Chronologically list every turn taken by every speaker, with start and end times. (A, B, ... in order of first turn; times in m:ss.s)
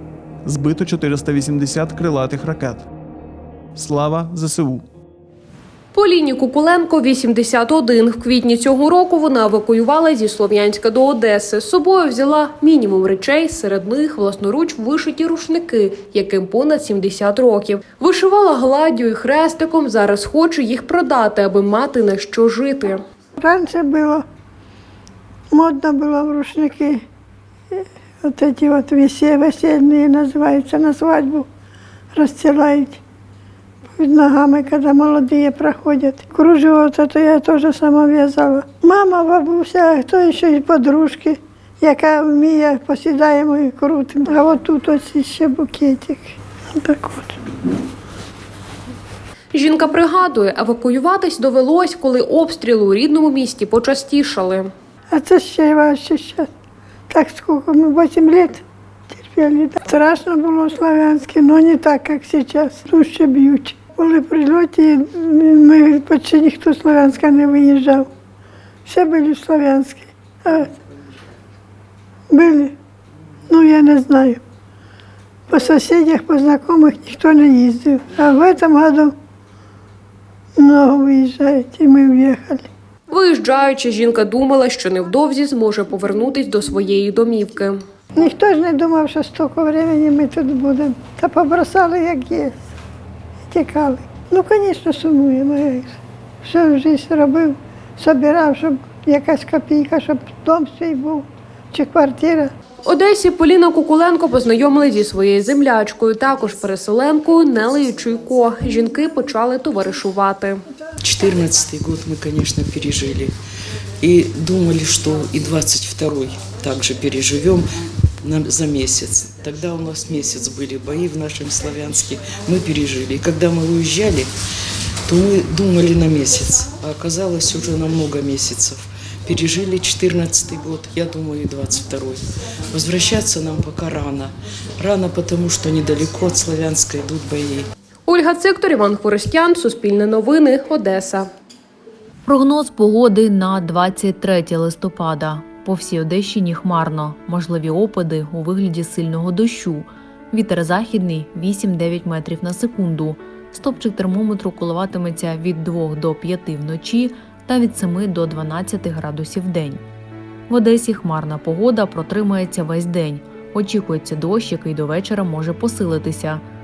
0:00.4-0:02.9 A
0:03.8-0:04.9 A
0:05.9-0:23.0 B
0:23.4-0:24.2 C
0:25.5-0:27.0 C
0:27.7-0:31.5 C
0:32.1-0:33.0 C
0:33.9-0:47.4 C
0:49.5-0:54.7 B
0:55.1-0:56.5 C
0:57.1-0:58.6 C
0:59.1-1:08.1 C
1:08.9-1:10.7 C
1:12.3-1:12.7 C
1:13.5-1:14.4 C
1:15.5-1:19.1 C
1:20.6-1:22.7 C
1:23.1-1:27.8 B
1:28.2-1:32.6 C
1:33.5-1:42.5 C
1:42.8-1:50.6 B
1:51.0-1:53.4 D
1:54.0-1:57.7 D
1:58.2-2:04.3 D
2:05.1-2:17.7 D
2:18.1-2:21.3 B
2:22.3-2:39.8 E
2:40.5-2:46.4 E